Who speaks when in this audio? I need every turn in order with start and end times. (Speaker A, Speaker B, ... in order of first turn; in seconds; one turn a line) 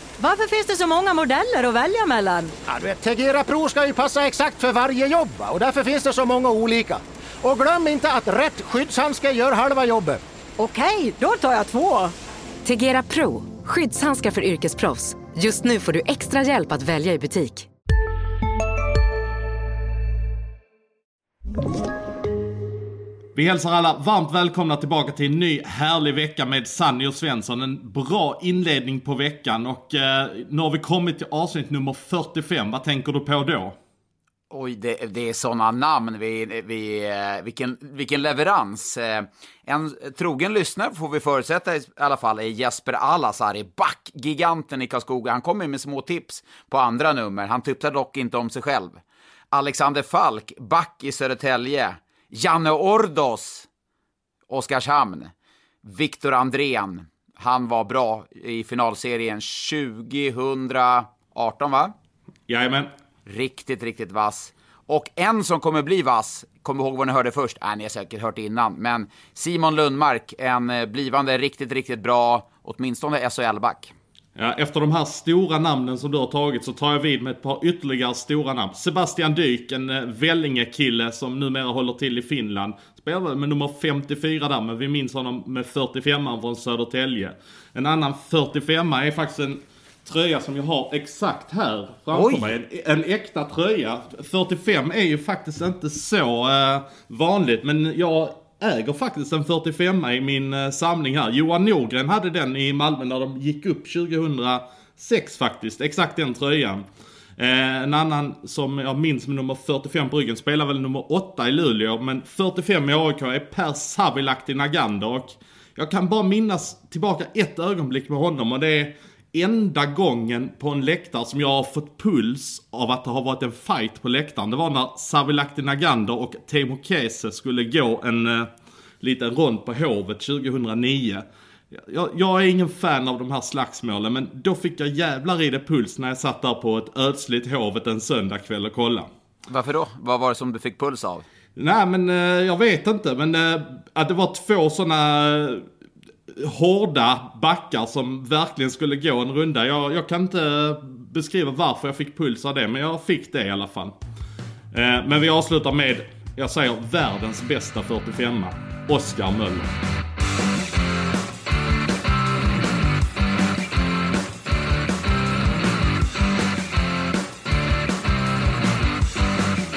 Speaker A: 0.2-2.5
Speaker B: 2.6-10.2
Speaker A: 10.6-12.1
Speaker C: 12.6-17.7
Speaker D: 23.3-33.8
Speaker E: 34.5-49.0
Speaker E: 49.5-53.7
Speaker E: 54.5-55.3
Speaker E: 55.8-61.9
Speaker D: 62.5-62.9
Speaker E: 63.3-73.9
Speaker D: 74.3-106.8
Speaker E: 92.1-92.5
Speaker D: 107.4-139.1
Speaker E: 139.5-141.2
Speaker D: 141.6-145.7
Speaker D: 146.3-153.9
Speaker D: 154.7-159.7